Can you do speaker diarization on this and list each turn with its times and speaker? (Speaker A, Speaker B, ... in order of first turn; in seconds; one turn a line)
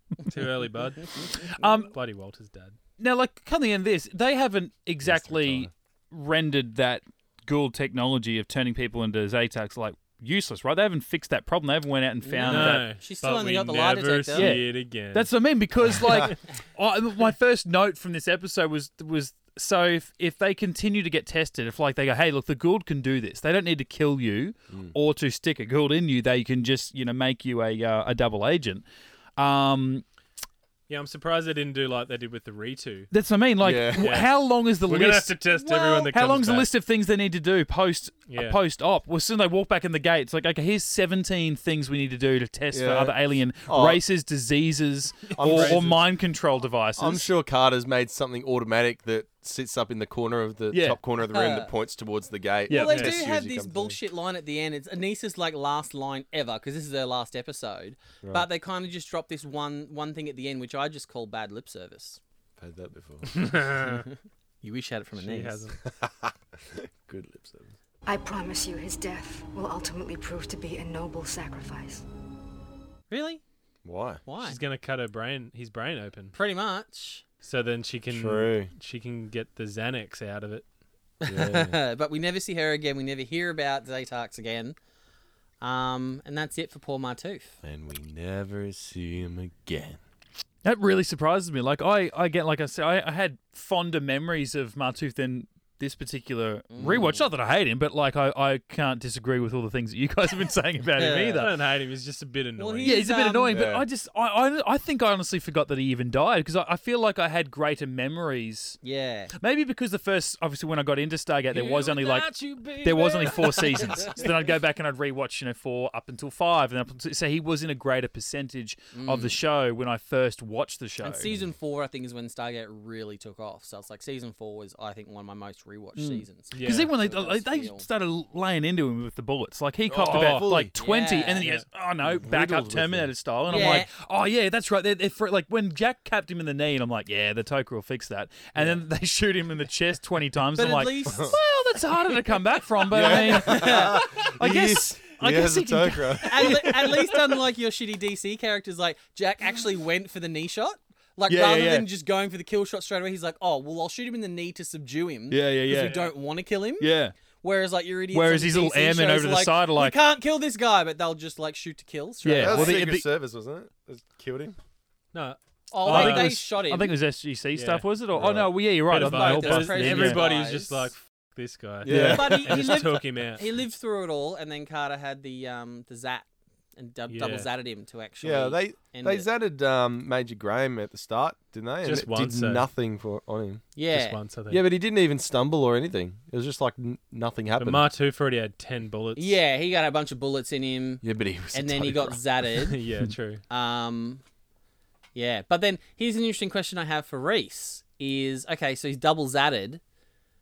Speaker A: 0.3-1.2
Speaker B: 1.3-1.9
Speaker A: 1.9-2.8
Speaker B: 3.0-12.9
Speaker C: 5.0-5.7
Speaker D: 12.2-14.5
Speaker A: 12.4-15.3
Speaker B: 14.3-28.8
Speaker B: 29.4-30.0
Speaker A: 30.9-33.1
Speaker B: 33.1-47.3
Speaker C: 33.6-34.1
Speaker A: 34.0-34.3
Speaker A: 34.8-36.7
Speaker A: 38.3-38.6
Speaker C: 42.7-44.0
Speaker A: 45.3-45.9
Speaker C: 45.4-46.0
Speaker C: 47.0-54.0
Speaker B: 50.7-51.0
Speaker D: 51.3-51.7
Speaker B: 52.7-53.0
Speaker D: 52.7-62.2
Speaker C: 62.6-63.5
Speaker A: 63.3-64.0
Speaker D: 64.6-65.7
Speaker A: 65.2-65.8
Speaker C: 65.9-67.7
Speaker E: 68.0-72.0
Speaker D: 73.1-73.4
Speaker C: 73.8-74.2
Speaker D: 74.2-74.6
Speaker A: 74.4-76.3
Speaker D: 76.3-77.2
Speaker A: 77.4-80.6
Speaker C: 78.1-78.7
Speaker D: 81.2-84.8
Speaker C: 81.3-81.8
Speaker D: 85.6-87.6
Speaker C: 87.6-90.0
Speaker B: 90.6-101.5
Speaker D: 96.7-97.3
Speaker D: 101.0-101.5
Speaker A: 101.3-103.0
Speaker D: 102.6-103.5
Speaker B: 102.8-108.8
Speaker C: 103.5-103.8
Speaker D: 108.8-109.3
Speaker B: 109.4-121.3
Speaker A: 111.5-114.2
Speaker D: 118.9-119.4
Speaker D: 121.0-127.8
Speaker B: 126.0-147.3
Speaker A: 126.5-126.9
Speaker C: 129.9-130.7
Speaker A: 130.0-130.5
Speaker D: 130.7-131.5
Speaker C: 132.0-133.1
Speaker D: 133.5-133.9
Speaker D: 140.6-141.4
Speaker C: 142.9-146.6
Speaker D: 143.0-144.0
Speaker D: 146.2-162.8
Speaker B: 151.3-151.9
Speaker B: 155.3-156.1
Speaker A: 155.8-156.1
Speaker B: 156.8-157.2
Speaker B: 158.1-160.0
Speaker B: 162.2-163.1
Speaker C: 162.4-164.5
Speaker A: 165.1-166.4
Speaker D: 165.7-166.9
Speaker B: 165.8-170.2
Speaker A: 167.5-167.8
Speaker C: 168.1-168.5
Speaker A: 168.9-173.4
Speaker D: 168.9-170.9
Speaker C: 171.8-172.7
Speaker B: 171.9-172.4
Speaker D: 171.9-176.2
Speaker D: 176.8-179.3
Speaker A: 177.1-177.5
Speaker C: 178.2-183.7
Speaker A: 181.8-182.7
Speaker D: 183.7-184.2
Speaker A: 183.9-184.6
Speaker C: 184.5-187.8
Speaker A: 187.6-189.4
Speaker D: 189.2-192.8
Speaker C: 191.0-192.2
Speaker A: 192.6-193.4
Speaker D: 193.5-194.2
Speaker D: 195.1-199.8